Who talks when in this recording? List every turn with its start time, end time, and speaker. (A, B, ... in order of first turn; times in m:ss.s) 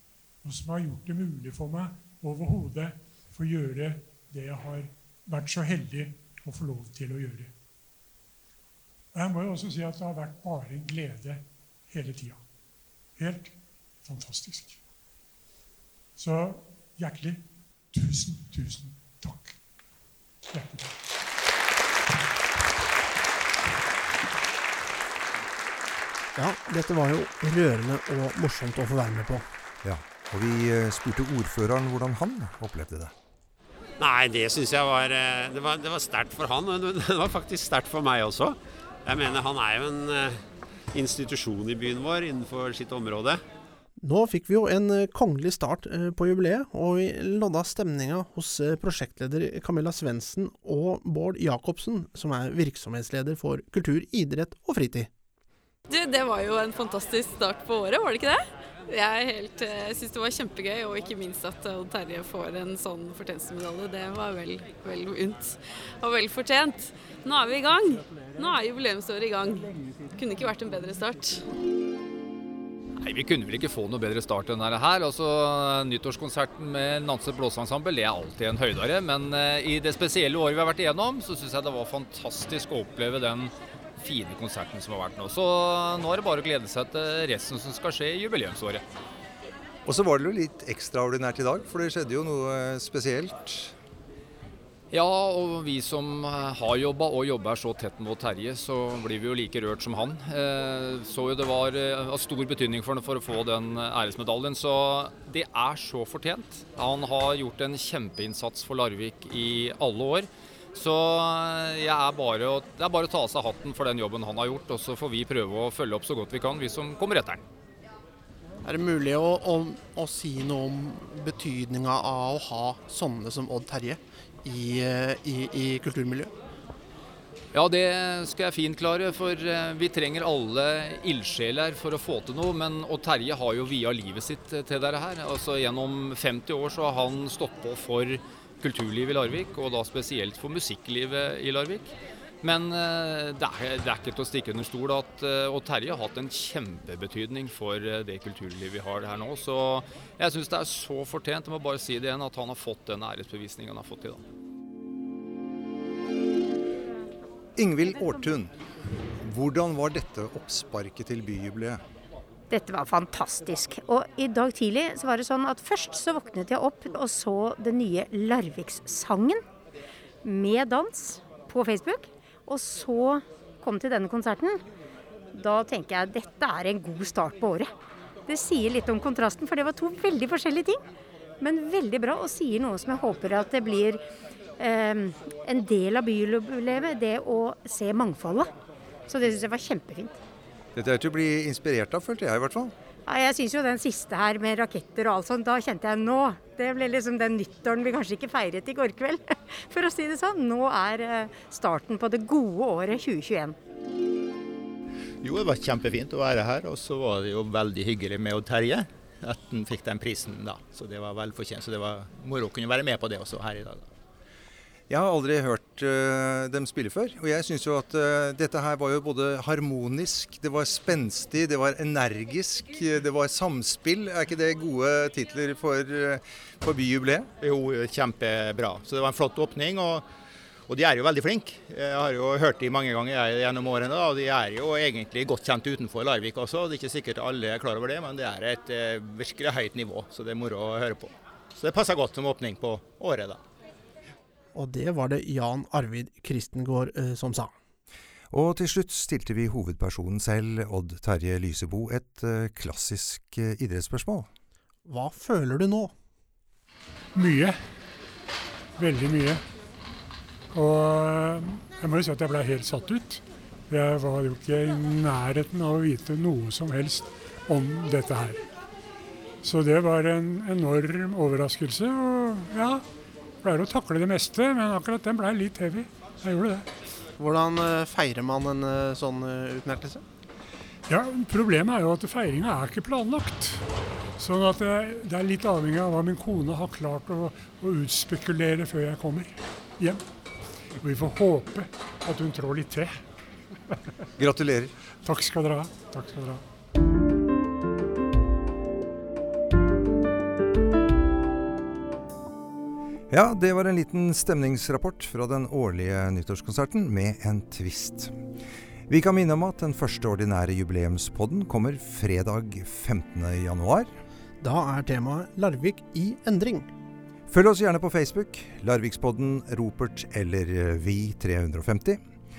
0:00.4-0:07.5 A
0:09.1-0:12.4 A
0:13.2-0:14.8 A
0:16.2-0:19.6 A
0:20.5-0:21.0 A
0:26.4-0:29.4 B
0:29.8-0:33.1 C
0:34.0-0:40.4 D
0:40.9-0:43.4 D
0:44.0-0:55.1 B
0:55.9-1:11.4 E
1:13.0-1:28.8 F
1:29.8-1:33.7 C
1:34.9-1:57.4 F
1:58.6-2:06.3 B
2:07.5-2:34.2 F
2:37.6-2:38.5 C
2:39.2-2:41.8 C
2:42.5-2:49.4 G
2:50.2-2:54.6 G
2:55.3-2:57.7 G
2:58.3-3:00.8 G
3:01.4-3:04.0 G
3:04.6-3:08.5 G
3:09.1-3:10.2 G
3:10.7-3:12.7 C
3:13.0-3:23.6 G
3:25.2-3:33.9 H
3:34.9-3:47.3 C
3:47.4-3:50.0 H
3:50.7-4:03.4 H
4:04.5-4:07.5 B
4:08.3-4:14.3 C
4:14.8-4:15.9 B
4:17.1-4:17.6 A
4:18.8-4:19.4 A
4:20.5-4:28.4 A
4:29.4-4:32.8 A
4:33.4-4:36.7 A
4:37.2-4:40.0 B
4:40.9-4:50.0 A
4:50.8-4:53.0 A
4:54.2-4:54.7 C
4:55.0-4:56.4 A
5:03.1-5:08.1 C
5:08.9-5:13.9 C
5:14.4-5:16.7 B
5:17.3-5:22.0 C